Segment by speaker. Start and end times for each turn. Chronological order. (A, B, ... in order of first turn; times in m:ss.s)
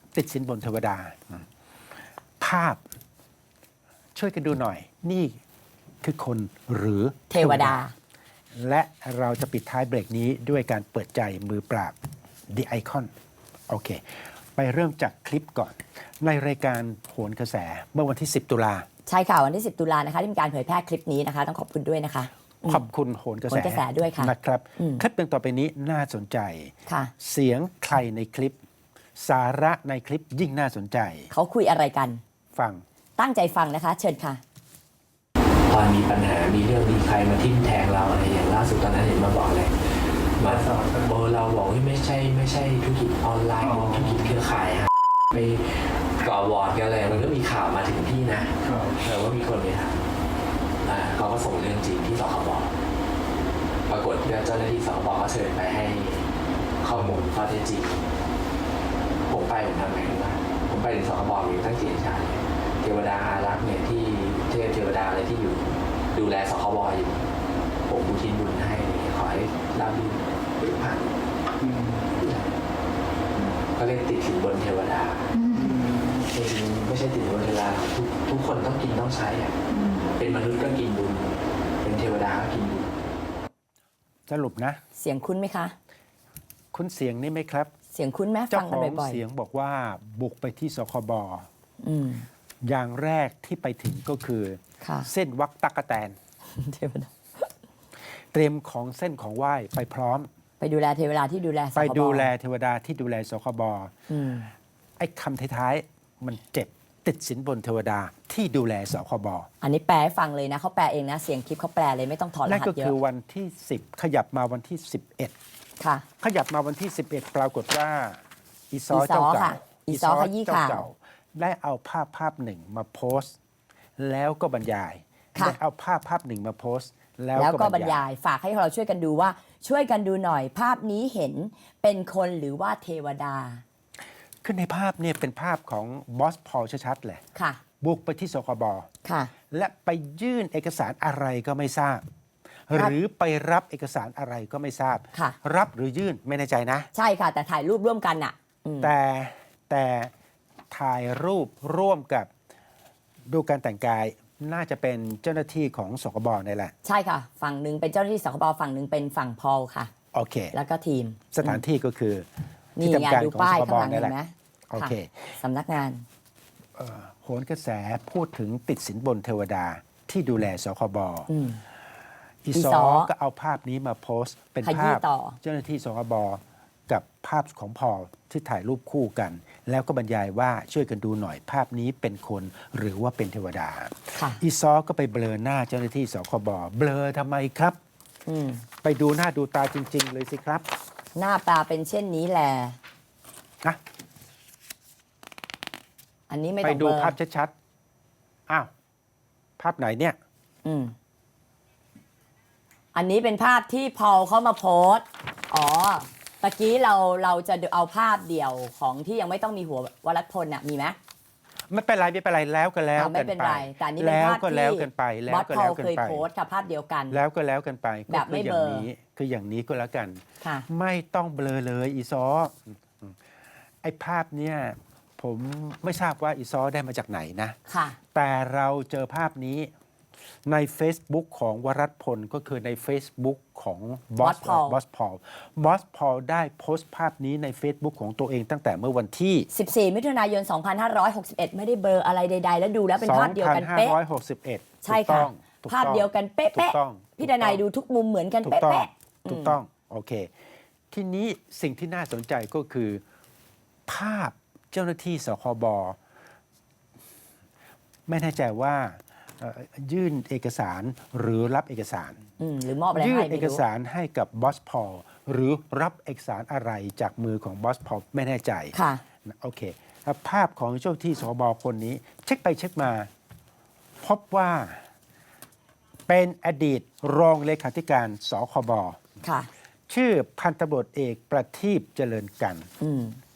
0:00.2-0:01.4 A
0:02.4-0:02.8 A
0:04.2-0:05.4 A
0:06.0-0:07.8 A
0:07.3-0:07.9 B
0:08.6-0:12.0 A
0:12.5-0:13.1 A
0:13.7-0:18.9 A
0:19.1-0:22.8 B
0:22.7-0:28.6 A
0:23.5-0:25.0 B
0:29.2-0:31.3 A
0:31.3-0:32.2 B
0:32.6-0:32.8 A
0:33.2-0:34.4 B
0:35.7-0:50.0 C
0:50.8-0:52.7 C
0:53.9-0:56.3 C
0:56.8-0:58.1 C
0:59.3-1:07.3 C
1:07.8-1:12.5 C
1:13.4-1:22.9 C
1:24.3-1:24.8 A
1:25.0-1:25.8 B
1:26.7-1:27.7 A
1:27.9-1:29.2 B
1:28.5-1:31.5 A
1:31.8-1:32.3 B
1:32.6-1:36.2 A
1:34.8-1:35.1 B
1:36.5-1:37.5 B
1:38.3-1:40.3 A
1:40.6-1:42.3 B
1:41.8-1:43.9 A
1:44.1-1:44.5 B
1:45.0-1:49.5 A
1:49.6-1:53.0 B
1:52.4-1:55.4 A
1:55.8-1:56.1 B
1:56.2-2:03.4 A
1:58.9-2:00.9 B
2:04.0-2:08.0 A
2:07.4-2:13.6 B
2:14.4-2:17.2 A
2:17.4-2:17.6 B
2:17.8-2:18.9 A
2:19.0-2:19.3 B
2:19.5-2:22.0 A
2:22.7-2:26.9 A
2:26.9-2:28.9 B
2:28.8-2:30.1 A
2:30.7-2:32.3 A
2:33.3-2:36.7 A
2:36.8-2:39.9 B
2:40.1-2:40.6 A
2:40.5-2:41.6 B
2:41.3-2:42.3 A
2:42.8-2:46.0 B
2:42.8-2:44.2 A
2:44.7-2:45.4 A
2:46.8-2:51.3 A
2:51.3-2:51.6 B
2:52.4-3:07.8 A
2:52.5-2:53.1 B
2:54.6-2:55.4 B
3:08.3-3:08.6 B
3:08.8-3:10.7 A
3:11.2-3:12.8 B
3:16.3-3:17.2 B
3:16.6-3:17.5 A
3:19.6-3:20.2 A
3:20.6-3:20.9 B
3:22.9-3:31.0 B
3:31.7-3:36.3 A
3:33.0-3:37.2 B
3:37.1-3:43.2 A
3:38.1-3:38.9 B
3:43.8-3:47.6 A
3:47.7-3:48.0 B
3:48.1-3:49.7 A
3:50.4-3:59.5 A
3:54.2-3:54.8 B
3:59.5-4:04.0 B
4:03.0-4:07.6 A
4:04.8-4:09.6 B
4:08.4-4:10.3 A
4:10.9-4:13.0 A
4:13.9-4:16.0 A
4:18.1-4:22.2 A
4:22.4-4:23.6 B
4:22.9-4:28.8 A
4:28.7-4:29.0 B
4:29.3-4:33.1 A
4:34.0-4:34.8 A
4:36.1-4:39.0 A
4:39.2-4:39.5 B
4:39.9-4:42.7 A
4:42.8-4:43.2 B